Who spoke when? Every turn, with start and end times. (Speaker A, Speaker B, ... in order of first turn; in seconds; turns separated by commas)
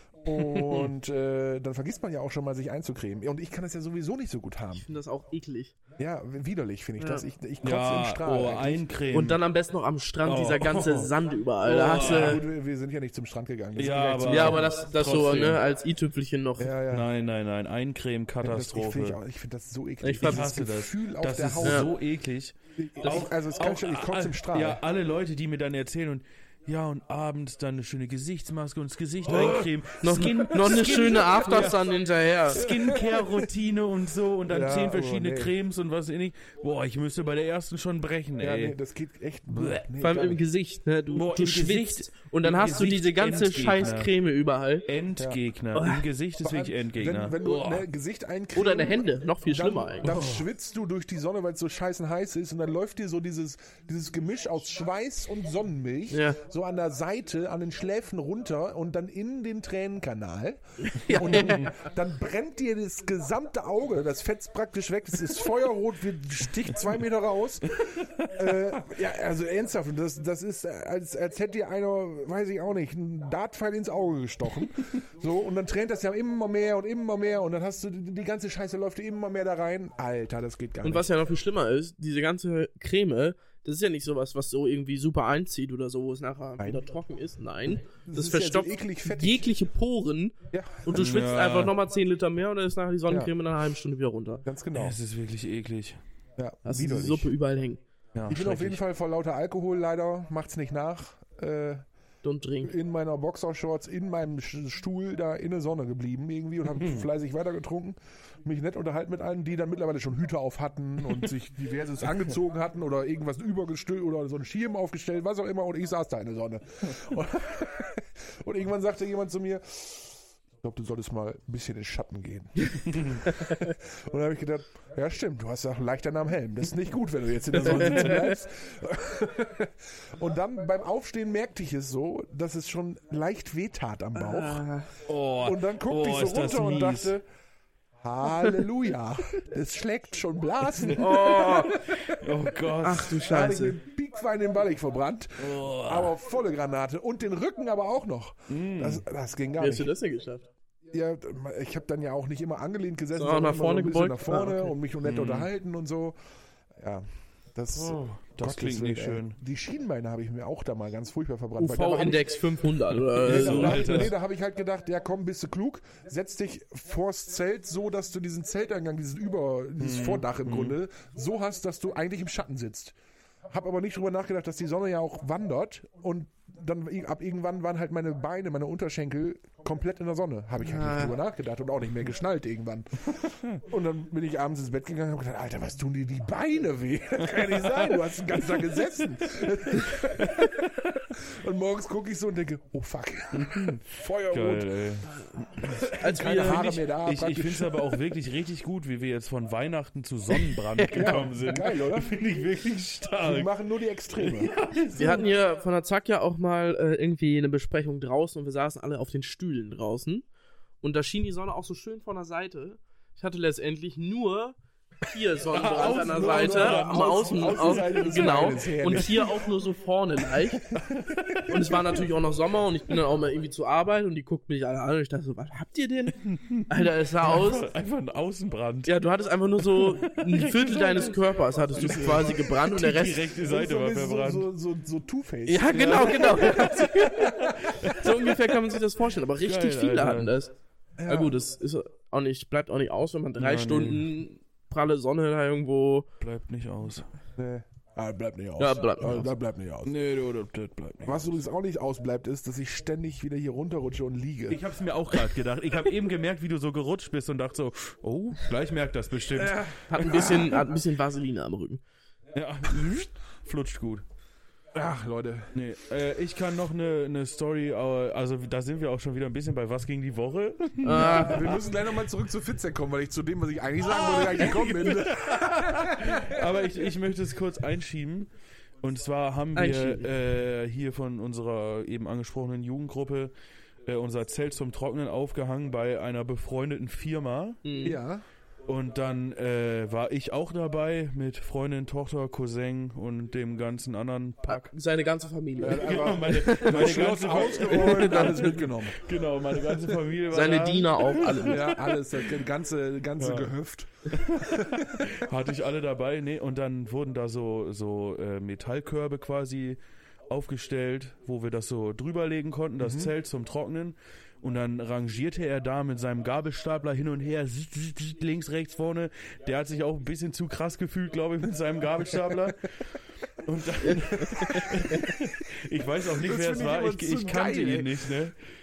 Speaker A: 0.2-4.8, Speaker B: 0.3-0.9, Speaker C: 4.7-5.7, Speaker A: 6.0-8.9, Speaker C: 7.0-7.2, Speaker B: 7.6-9.4, Speaker C: 9.1-12.4, Speaker B: 10.2-12.4, Speaker A: 11.9-14.7, Speaker B: 13.8-15.6, Speaker C: 14.3-16.8, Speaker A: 16.6-17.1, Speaker B: 16.9-19.2, Speaker A: 18.4-21.9, Speaker C: 20.0-20.5, Speaker B: 20.2-31.9, Speaker C: 21.6-21.9, Speaker A: 22.8-24.8, Speaker A: 29.3-29.7, Speaker C: 30.0-32.6, Speaker B: 32.5-38.8, Speaker A: 32.5-33.5, Speaker A: 34.5-35.5, Speaker A: 38.4-40.4, Speaker B: 39.5-39.9, Speaker C: 40.0-44.9, Speaker B: 41.1-44.1, Speaker B: 44.9-47.9, Speaker C: 45.7-46.0, Speaker A: 46.4-81.1, Speaker C: 48.5-50.1, Speaker B: 50.0-50.5, Speaker C: 56.1-56.4, Speaker C: 60.9-61.7, Speaker B: 67.8-68.7, Speaker C: 80.8-94.4, Speaker A: 88.0-89.5, Speaker A: 90.5-91.2, Speaker B: 90.9-91.7, Speaker A: 94.4-95.0, Speaker B: 94.7-96.0, Speaker A: 96.4-97.3, Speaker C: 96.7-97.8, Speaker B: 98.1-98.8, Speaker A: 98.3-101.8, Speaker C: 102.2-102.7, Speaker A: 102.6-134.6, Speaker B: 106.7-107.1, Speaker B: 122.9-123.2, Speaker B: 127.5-128.3, Speaker C: 134.2-134.9, Speaker B: 135.1-137.1, Speaker A: 135.4-137.2, Speaker A: 138.0-142.2, Speaker B: 140.8-141.0, Speaker C: 141.0-141.7, Speaker B: 142.1-143.2, Speaker C: 142.8-143.8, Speaker A: 142.9-149.9, Speaker B: 145.4-146.1, Speaker B: 148.5-149.0, Speaker C: 149.6-150.4, Speaker A: 150.9-156.2, Speaker C: 153.2-154.7, Speaker B: 155.0-155.5, Speaker A: 156.8-162.4, Speaker B: 157.8-159.4, Speaker C: 161.6-164.1, Speaker B: 162.9-164.1, Speaker A: 163.2-172.9, Speaker B: 169.8-170.8, Speaker A: 173.5-194.8, Speaker C: 180.6-181.1, Speaker B: 187.3-188.0, Speaker B: 189.9-190.5, Speaker B: 193.3-203.5, Speaker A: 195.5-197.9, Speaker C: 195.9-196.8, Speaker C: 200.8-201.1, Speaker A: 200.9-202.2, Speaker A: 203.2-204.5, Speaker B: 204.2-205.4, Speaker C: 204.9-210.2, Speaker C: 210.8-220.6, Speaker B: 215.5-218.3, Speaker A: 215.7-219.3, Speaker B: 218.8-219.3, Speaker B: 220.5-222.1, Speaker A: 220.8-221.4, Speaker C: 221.5-227.6, Speaker B: 226.2-228.9, Speaker C: 228.8-233.3, Speaker B: 229.6-231.2, Speaker B: 231.7-234.5, Speaker A: 231.8-232.4, Speaker A: 233.4-237.4, Speaker C: 235.5-240.5, Speaker B: 235.8-238.7, Speaker B: 239.4-240.3, Speaker A: 241.0-241.4, Speaker C: 241.1-246.1, Speaker B: 243.4-244.1, Speaker B: 246.2-247.1, Speaker A: 247.4-249.9, Speaker C: 248.6-249.3, Speaker B: 249.8-251.4, Speaker A: 251.0-254.6, Speaker B: 254.5-260.4, Speaker A: 259.4-260.6, Speaker C: 259.9-261.8, Speaker B: 262.3-264.1, Speaker A: 264.7-265.5, Speaker B: 265.5-271.6, Speaker C: 270.8-271.6, Speaker A: 270.9-276.4, Speaker B: 273.9-278.3, Speaker B: 278.8-283.3, Speaker C: 279.6-280.1, Speaker B: 283.9-287.7, Speaker C: 287.6-288.0, Speaker A: 287.8-288.2, Speaker B: 288.6-294.7, Speaker C: 294.5-297.1, Speaker A: 295.6-299.0, Speaker B: 295.8-302.0, Speaker C: 297.6-298.7, Speaker C: 300.3-301.8, Speaker A: 301.4-305.2, Speaker B: 303.2-303.5, Speaker B: 304.1-328.4, Speaker A: 312.8-313.1, Speaker C: 323.9-325.0, Speaker A: 324.2-325.2, Speaker A: 326.2-328.1